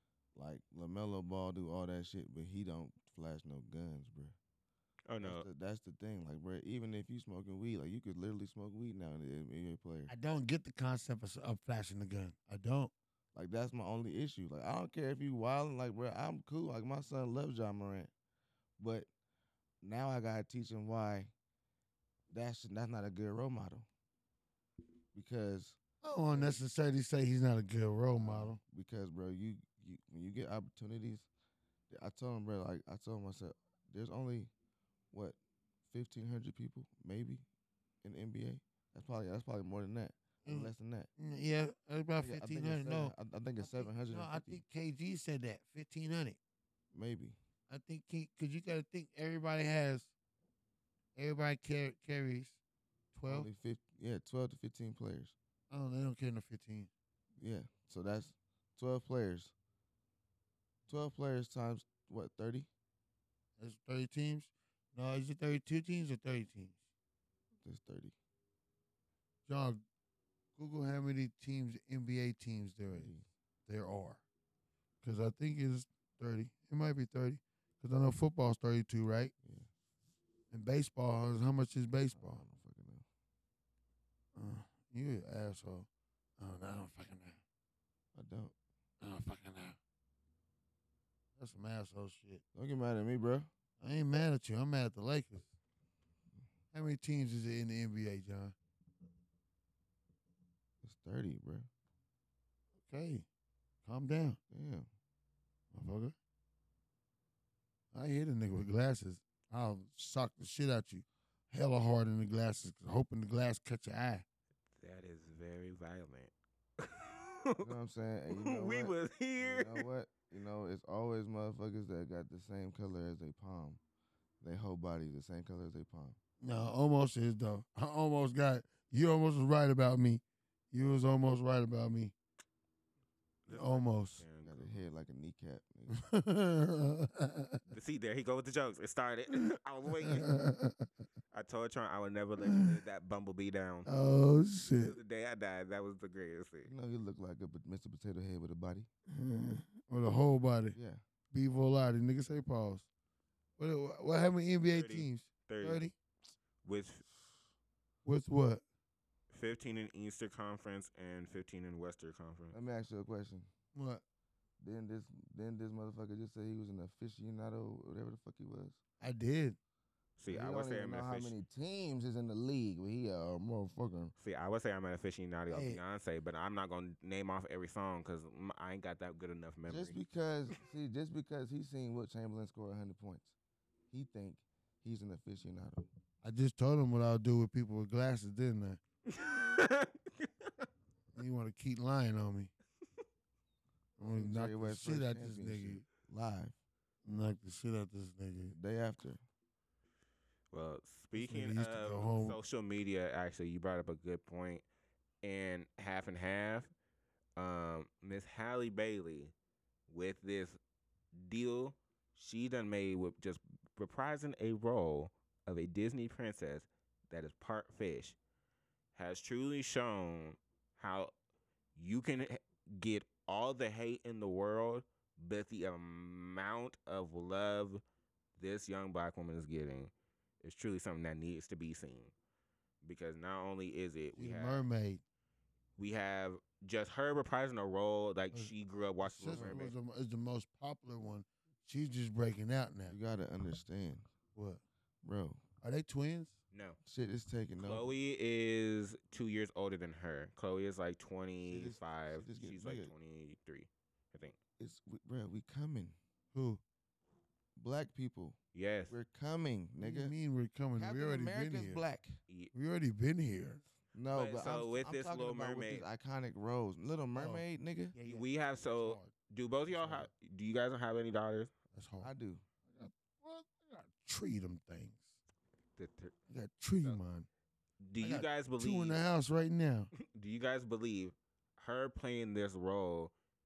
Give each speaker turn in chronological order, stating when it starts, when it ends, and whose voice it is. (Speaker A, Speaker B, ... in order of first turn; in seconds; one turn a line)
Speaker A: 0.3-4.3
Speaker B: 5.1-5.5
Speaker A: 5.2-10.1
Speaker C: 10.1-12.9
Speaker A: 13.3-18.1
Speaker A: 18.8-19.1
Speaker A: 19.8-21.3
Speaker A: 22.3-23.9
Speaker A: 25.1-25.8
Speaker C: 26.0-28.6
Speaker A: 26.3-26.6
Speaker A: 28.1-31.3
Speaker A: 31.9-34.5
Speaker A: 35.1-35.4
Speaker A: 35.9-37.4
Speaker A: 38.0-41.1
Speaker C: 40.4-46.4
Speaker A: 42.2-44.6
Speaker A: 46.9-47.4
Speaker C: 47.7-50.1
Speaker C: 51.1-52.6
Speaker C: 53.1-53.5
Speaker A: 53.2-55.3
Speaker C: 55.7-56.9
Speaker A: 57.4-59.5
Speaker A: 60.9-62.7
Speaker C: 63.6-66.7
Speaker A: 67.6-68.1
Speaker C: 69.5-69.8
Speaker C: 70.5-73.1
Speaker A: 72.9-73.3
Speaker C: 73.7-74.2
Speaker C: 75.0-79.3
Speaker A: 79.4-79.7
Speaker C: 80.5-82.4
Speaker A: 82.1-83.0
Speaker C: 84.3-85.9
Speaker C: 86.4-87.4
Speaker A: 88.1-88.5
Speaker C: 89.0-89.8
Speaker C: 91.4-92.4
Speaker A: 92.5-93.5
Speaker C: 93.8-95.5
Speaker C: 96.7-98.5
Speaker A: 100.8-101.7
Speaker C: 102.8-103.2
Speaker C: 103.8-104.4
Speaker A: 104.5-104.9
Speaker C: 105.7-106.1
Speaker C: 107.9-114.2
Speaker B: 114.8-117.6
Speaker A: 117.6-123.8
Speaker B: 118.3-119.8
Speaker A: 124.4-126.2
Speaker C: 126.4-132.1
Speaker B: 133.4-134.8
Speaker C: 133.5-134.2
Speaker A: 134.4-136.0
Speaker C: 135.9-137.6
Speaker B: 137.7-140.3
Speaker C: 140.0-140.8
Speaker B: 141.3-143.9
Speaker C: 142.4-142.7
Speaker C: 143.8-145.0
Speaker B: 144.8-146.7
Speaker A: 146.6-148.9
Speaker C: 149.1-150.8
Speaker A: 150.7-151.0
Speaker C: 151.3-152.9
Speaker C: 153.6-155.9
Speaker B: 154.7-155.8
Speaker B: 156.6-157.0
Speaker C: 158.0-158.6
Speaker B: 159.3-162.5
Speaker A: 162.5-163.5
Speaker C: 163.7-164.0
Speaker A: 164.6-168.8
Speaker C: 169.0-169.6
Speaker B: 170.2-171.3
Speaker A: 170.3-174.1
Speaker B: 174.2-180.0
Speaker C: 175.5-175.8
Speaker A: 179.7-183.3
Speaker A: 183.9-185.8
Speaker C: 186.2-188.8
Speaker B: 189.1-190.5
Speaker C: 191.1-192.5
Speaker C: 194.0-195.8
Speaker A: 194.0-196.6
Speaker C: 197.0-198.5
Speaker A: 198.5-199.2
Speaker B: 200.5-204.6
Speaker C: 201.1-202.4
Speaker B: 205.2-206.7
Speaker B: 207.4-209.3
Speaker B: 209.9-210.6
Speaker B: 211.2-218.2
Speaker B: 218.9-221.1
Speaker B: 221.8-227.8
Speaker B: 228.4-229.9
Speaker B: 230.4-232.1
Speaker B: 232.8-234.6
Speaker C: 234.2-235.0
Speaker B: 235.8-239.7
Speaker C: 238.3-242.9
Speaker A: 239.3-239.7
Speaker A: 242.9-244.1
Speaker C: 244.3-244.6
Speaker A: 245.0-245.4
Speaker C: 245.6-246.3
Speaker B: 246.5-246.8
Speaker A: 246.8-247.9
Speaker B: 247.6-254.3
Speaker A: 251.5-252.9
Speaker A: 254.6-256.0
Speaker C: 256.3-256.6
Speaker A: 257.6-258.4
Speaker B: 258.5-258.9
Speaker A: 258.9-260.1
Speaker C: 259.8-261.8
Speaker A: 260.8-262.2
Speaker C: 262.5-263.6
Speaker A: 263.9-267.9
Speaker B: 264.1-265.9
Speaker C: 267.1-267.4
Speaker C: 267.9-269.1
Speaker B: 268.0-271.5
Speaker C: 269.7-270.0
Speaker C: 271.7-272.1
Speaker A: 272.0-272.4
Speaker C: 272.7-275.1
Speaker B: 275.8-276.1
Speaker C: 276.3-277.3
Speaker B: 277.8-279.0
Speaker C: 278.0-279.9
Speaker B: 280.0-283.1